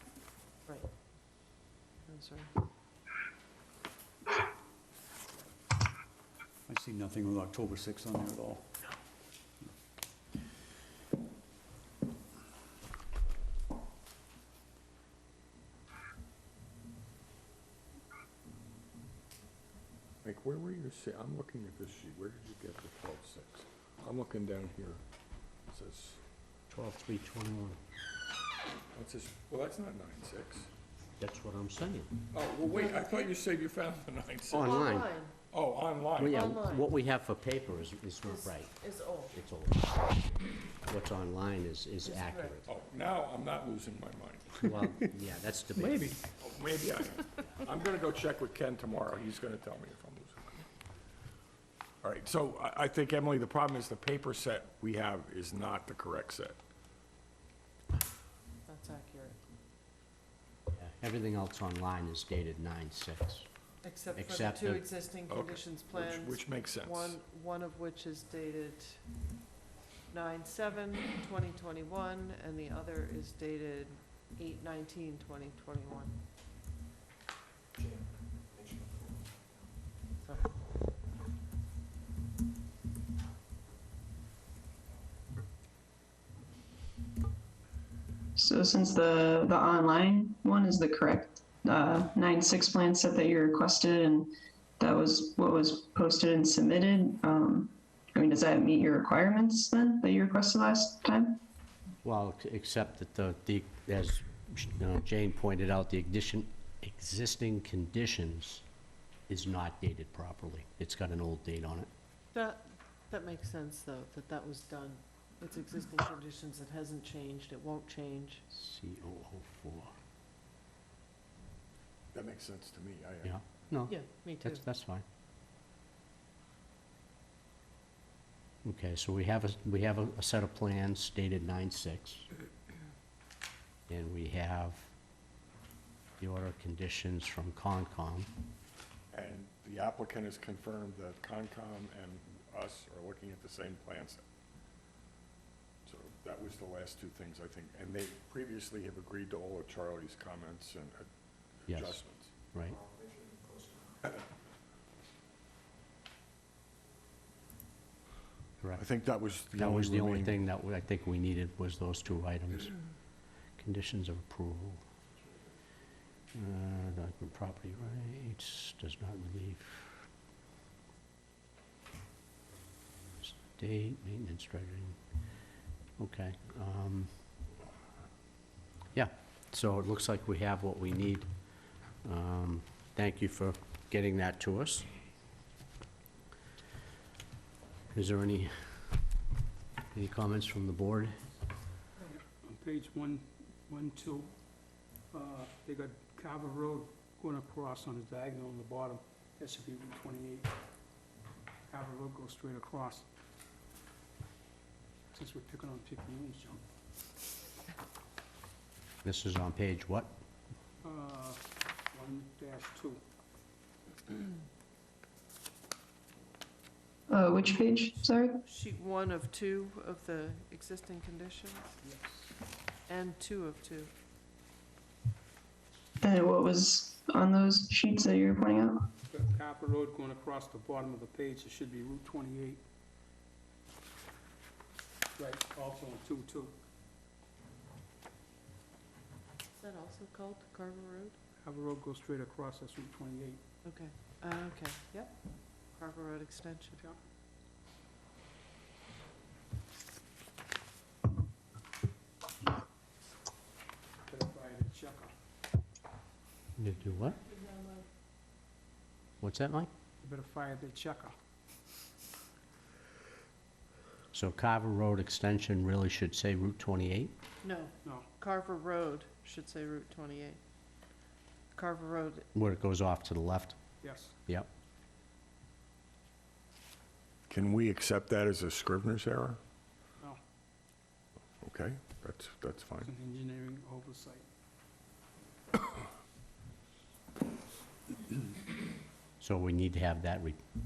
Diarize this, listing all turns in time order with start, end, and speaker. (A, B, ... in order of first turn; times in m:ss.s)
0:02.0-0:02.5 A
0:06.7-0:08.7 B
0:20.2-0:25.0 C
0:25.7-0:26.2 C
0:26.7-0:27.8 D
0:28.9-0:30.7 C
0:31.2-0:32.1 D
0:32.3-0:34.7 C
0:32.6-0:33.2 A
0:34.5-0:35.1 D
0:34.5-0:35.3 A
0:35.5-0:36.4 C
0:36.2-0:36.9 A
0:36.2-0:38.8 D
0:38.2-0:39.3 A
0:39.3-0:42.6 D
0:42.0-0:42.6 A
0:42.6-0:44.6 C
0:44.6-0:46.1 D
0:46.4-0:50.6 C
0:52.0-0:56.6 C
0:58.7-0:59.4 A
1:00.7-1:03.5 D
1:03.8-1:09.0 A
1:04.2-1:04.8 D
1:05.3-1:07.2 C
1:10.1-1:16.1 A
1:28.4-1:41.4 E
1:42.0-1:48.6 D
1:49.3-1:51.9 D
1:52.3-1:58.4 A
1:58.5-1:59.9 D
2:02.1-2:03.3 C
2:03.2-2:05.0 D
2:03.9-2:04.6 A
2:08.6-2:12.3 D
2:13.9-2:14.9 D
2:16.2-2:18.3 D
2:19.1-2:24.2 C
2:25.8-2:31.0 C
2:31.6-2:32.3 C
2:31.7-2:32.0 D
2:32.5-2:32.8 D
2:38.8-2:40.4 C
2:39.5-2:42.8 D
2:43.6-2:44.8 D
2:46.3-2:50.0 D
2:53.2-2:55.0 D
2:56.0-2:57.1 D
2:58.9-3:01.3 D
3:02.0-3:04.9 D
3:07.9-3:08.8 D
3:09.9-3:11.2 D
3:12.1-3:14.3 F
3:15.1-3:20.5 F
3:21.7-3:23.1 F
3:25.1-3:26.6 F
3:29.0-3:30.1 D
3:30.8-3:31.4 F
3:31.9-3:33.0 F
3:37.1-3:38.4 E
3:38.4-3:41.7 A
3:41.8-3:42.3 F
3:42.9-3:43.9 A
3:46.0-3:48.8 E
3:49.1-3:52.6 F
3:55.2-3:56.5 F
3:59.6-4:01.2 A
4:01.4-4:03.4 F
4:03.6-4:05.2 A
4:05.7-4:06.8 A
4:14.1-4:15.1 F
4:16.6-4:17.2 D
4:17.2-4:17.8 A
4:19.2-4:19.7 D
4:20.0-4:21.1 F
4:24.1-4:27.1 D
4:27.4-4:30.4 A
4:31.5-4:32.2 A
4:32.3-4:33.6 D
4:33.8-4:34.1 F
4:37.3-4:39.4 C
4:41.4-4:42.9 C
4:42.8-4:44.2 F
4:49.2-4:50.4 D